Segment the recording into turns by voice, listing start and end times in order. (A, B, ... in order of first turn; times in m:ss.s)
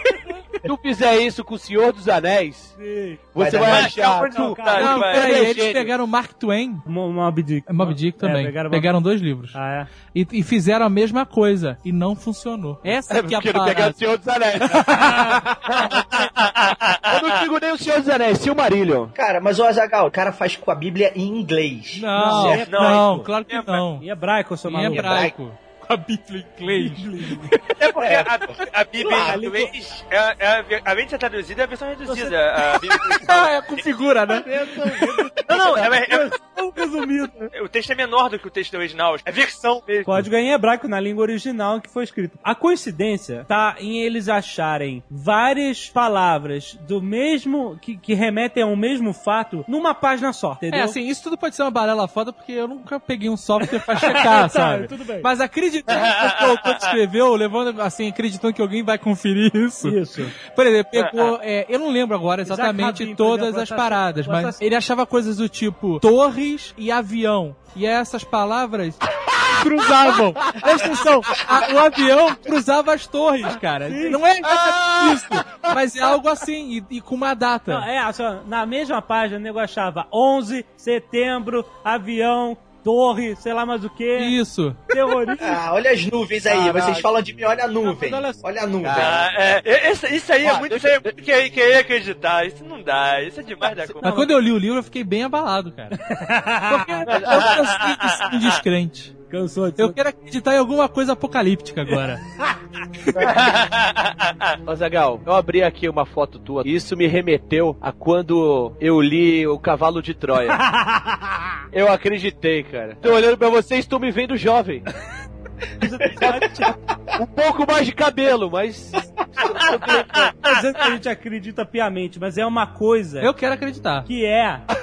0:00.6-0:02.7 A
0:02.8-0:03.2 B
0:03.3-0:05.9 A
0:03.4-0:04.0 C
0:03.7-0:05.5 D
0:04.3-0:05.0 B
0:04.7-0:06.8 E
0:06.8-0:08.9 B
0:07.7-0:09.6 E
0:09.5-0:09.9 B
0:10.1-0:14.0 E
0:13.1-0:15.9 A
0:14.9-0:15.4 B
0:15.7-0:17.2 D
0:17.0-0:19.1 A
0:19.1-0:22.6 C
0:21.9-0:24.0 E
0:22.2-0:23.3 B
0:22.6-0:23.8 D
0:24.0-0:25.3 B
0:24.6-0:27.3 E
0:24.9-0:25.3 C
0:26.7-0:27.5 B
0:27.8-0:33.8 D
0:28.0-0:28.5 C
0:29.0-0:29.3 C
0:29.1-0:29.7 B
0:32.0-0:32.4 B
0:32.9-0:35.0 E
0:34.3-0:37.5 B
0:35.5-0:36.3 D
0:37.5-0:40.1 D
0:40.0-0:51.0 B
0:50.7-1:17.9 E
0:53.9-0:55.3 B
0:56.0-0:56.7 D
0:59.8-1:00.3 B
1:02.5-1:04.6 B
1:10.4-1:10.9 A
1:13.9-1:14.2 B
1:14.5-1:15.4 A
1:17.7-1:24.3 B
1:24.2-1:24.8 E
1:24.9-1:25.6 B
1:25.4-1:29.3 C
1:26.4-1:27.1 B
1:27.8-1:28.4 B
1:28.8-1:29.3 A
1:28.9-1:34.1 D
1:30.4-1:31.1 A
1:33.7-1:33.9 A
1:34.0-1:36.0 E
1:34.0-1:34.3 B
1:36.1-1:37.0 B
1:36.6-1:39.1 E
1:37.1-1:38.4 D
1:37.2-1:37.5 A
1:39.3-1:40.0 B
1:39.8-1:42.2 E
1:43.2-1:44.5 D
1:44.6-1:50.6 A
1:50.6-1:51.3 B
1:51.7-1:54.8 A
1:55.8-1:56.7 B
1:57.2-2:00.3 A
2:00.4-2:03.3 B
2:03.2-2:04.1 E
2:04.0-2:04.7 B